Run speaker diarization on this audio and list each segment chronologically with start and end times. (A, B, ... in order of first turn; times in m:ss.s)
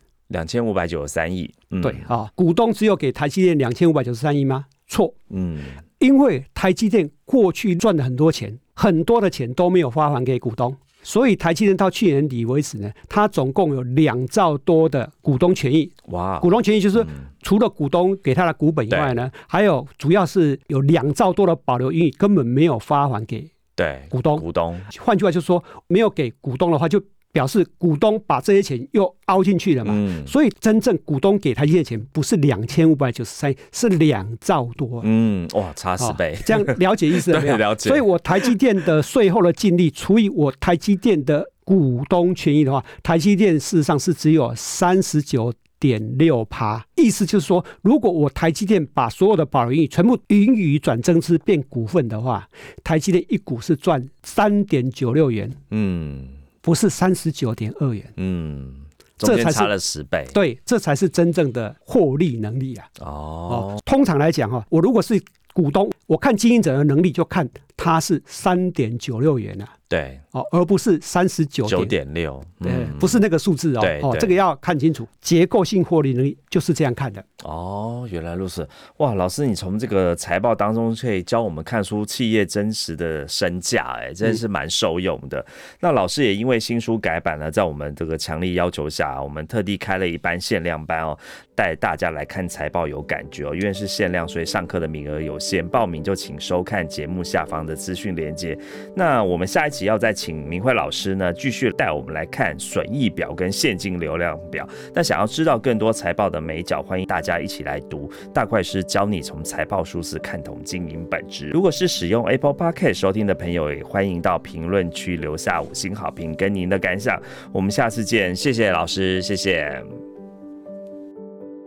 0:00.3-0:02.1 A
0:01.8-0:05.2 B
0:05.3-0:05.8 A
0:06.0-0:23.5 B
0:16.0-0:17.2 A
0:23.8-0:24.9 A
0:24.1-0:35.1 B
0:29.8-0:30.3 A
0:35.0-0:38.5 A
0:36.0-0:55.6 B
0:55.7-0:56.4 A
0:56.6-0:58.1 B
0:58.2-1:00.4 A
0:59.2-0:59.7 B
1:00.3-1:02.9 B
1:03.0-1:03.8 A
1:03.5-1:09.7 B
1:09.9-1:10.2 A
1:10.3-1:11.9 B
1:11.7-1:13.2 A
1:12.6-1:17.2 B
1:13.8-1:14.4 A
1:17.4-1:59.8 A